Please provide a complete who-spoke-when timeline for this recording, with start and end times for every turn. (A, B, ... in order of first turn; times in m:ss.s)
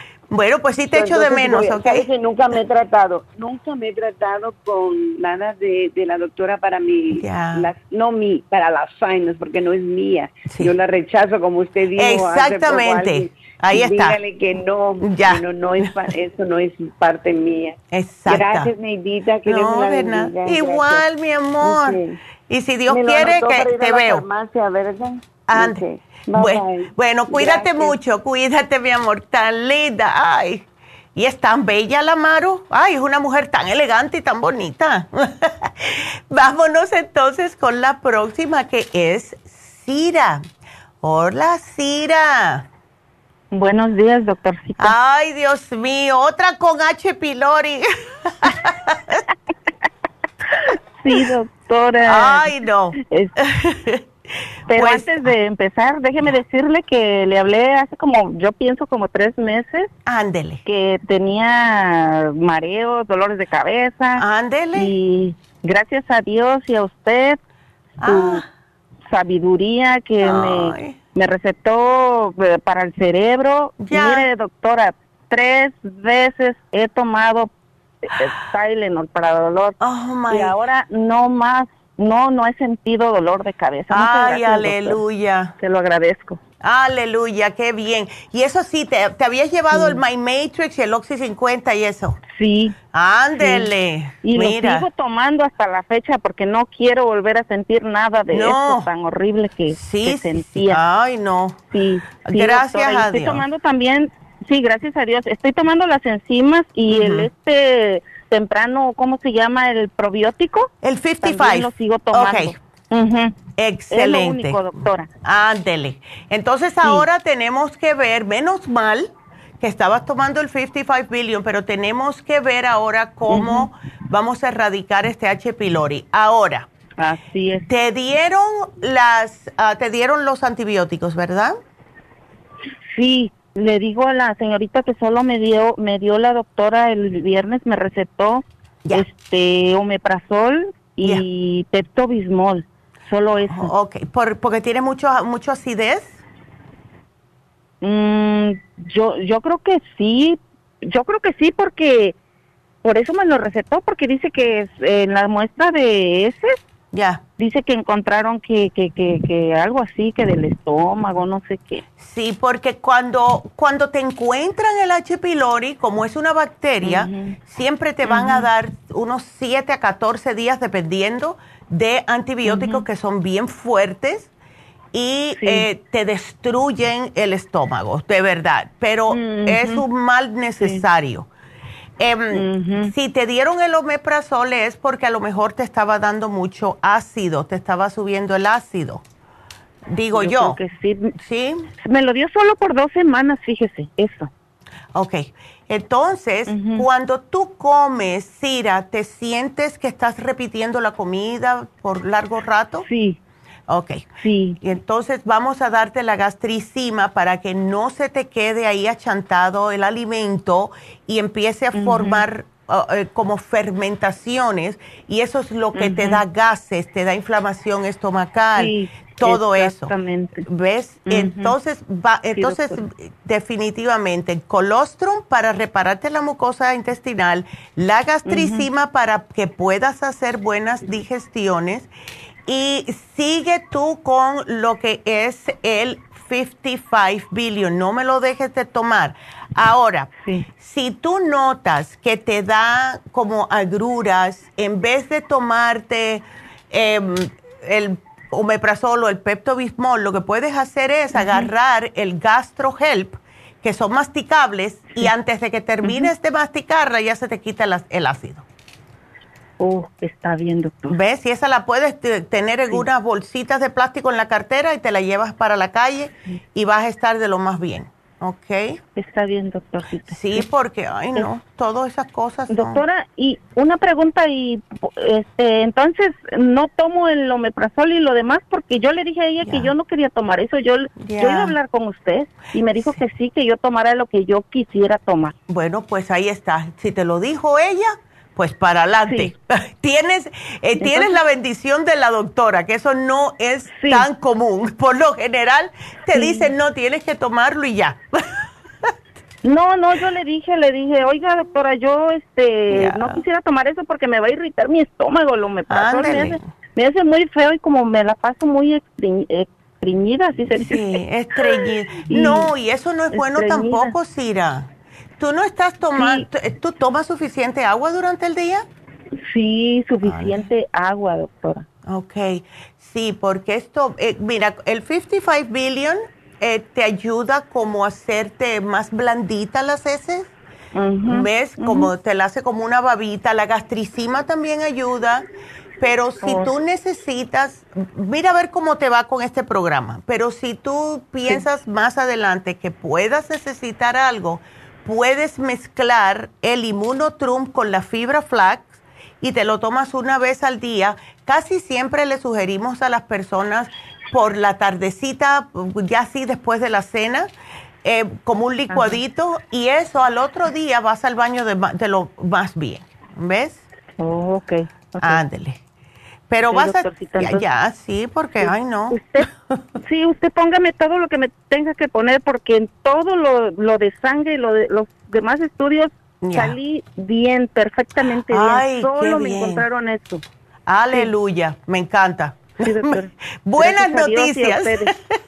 0:00.3-0:02.0 A
0:00.9-0:21.0 B
0:07.1-0:07.7 A
0:12.0-0:14.2 A
0:15.0-0:15.4 A
0:17.9-0:18.7 A
0:19.5-0:24.2 A
0:21.6-0:22.2 B
0:22.9-0:28.0 B
0:25.5-0:25.8 A
0:26.3-0:30.6 A
0:31.2-0:40.4 A
0:41.0-0:42.7 A
0:43.5-0:45.0 C
0:44.8-0:47.9 A
0:48.4-0:49.2 A
0:51.0-0:53.3 C
0:52.0-0:54.0 A
0:54.7-0:59.9 C
0:54.7-0:55.3 A
1:00.0-1:00.6 A
1:00.6-1:07.4 C
1:04.2-1:04.9 A
1:08.0-1:08.4 A
1:08.0-1:08.4 C
1:09.0-1:17.5 C
1:10.2-1:11.0 A
1:13.8-1:14.3 A
1:18.0-1:19.8 C
1:19.8-1:20.6 A
1:20.3-1:25.0 C
1:23.9-1:25.5 A
1:25.6-1:26.4 C
1:26.6-1:32.2 A
1:29.7-1:30.0 C
1:32.3-1:32.7 C
1:32.9-1:34.8 A
1:33.4-1:33.7 C
1:34.2-1:40.8 C
1:38.3-1:38.9 A
1:39.7-1:41.6 A
1:41.7-1:53.4 C
1:42.2-1:43.4 A
1:46.9-1:47.3 A
1:50.8-1:52.5 A
1:53.6-1:54.6 A
1:53.9-1:55.1 C
1:55.2-1:59.1 A
1:59.6-2:06.7 A
2:03.3-2:03.7 C
2:07.0-2:07.7 C
2:07.7-2:11.6 A
2:12.9-2:23.7 C
2:23.4-2:26.2 A
2:27.8-2:32.1 C
2:32.8-2:36.6 C
2:36.9-2:37.2 A
2:37.4-2:41.8 C
2:42.0-2:54.3 A
2:46.8-2:47.4 C
2:48.0-2:48.5 C
2:52.4-2:52.8 C
2:54.9-3:01.3 A
2:55.4-2:55.7 C
2:59.1-2:59.8 C
3:00.6-3:00.8 C
3:02.0-3:09.0 A
3:02.3-3:02.9 C
3:09.9-3:10.6 A
3:10.1-3:11.1 C
3:11.2-3:11.7 A
3:11.8-3:14.3 C
3:14.9-3:22.8 A
3:16.5-3:16.9 C
3:22.8-3:23.2 C
3:23.7-3:24.1 A
3:24.2-3:24.6 C
3:24.6-3:39.9 A
3:31.7-3:32.2 C
3:35.7-3:36.2 C
3:38.6-3:40.5 C
3:40.4-3:51.9 A
3:41.0-3:41.6 C
3:42.3-3:42.8 C
3:48.2-3:48.7 C
3:52.5-4:18.4 A
4:11.1-4:11.5 C
4:15.8-4:16.1 C
4:19.6-4:21.0 C
4:20.9-4:28.8 A
4:28.9-4:30.5 C
4:30.1-4:32.8 A
4:32.5-4:45.3 C
4:39.4-4:39.7 A
4:41.0-4:41.5 A
4:45.5-4:58.2 A
4:49.0-4:49.3 C
4:50.8-4:51.2 C
4:53.7-4:54.1 C
4:56.1-4:56.5 C
4:59.4-5:12.5 C
5:02.7-5:03.2 A
5:05.7-5:06.4 A
5:10.6-5:18.6 A
5:13.1-5:14.0 C
5:15.9-5:16.3 C
5:19.3-5:21.6 C
5:20.0-5:20.5 A
5:21.9-5:30.3 A
5:30.7-5:31.9 C
5:31.1-5:35.2 A
5:35.8-5:57.3 A
5:36.2-5:36.5 C
5:57.8-6:03.6 A
5:58.7-5:59.0 C
6:04.0-6:05.2 C
6:05.0-6:05.6 A
6:06.3-6:09.3 A
6:06.5-6:07.4 C
6:08.4-6:09.3 C
6:09.8-6:20.2 C
6:16.2-6:16.6 A
6:18.3-6:19.6 A
6:20.7-6:25.0 A
6:22.6-6:24.9 C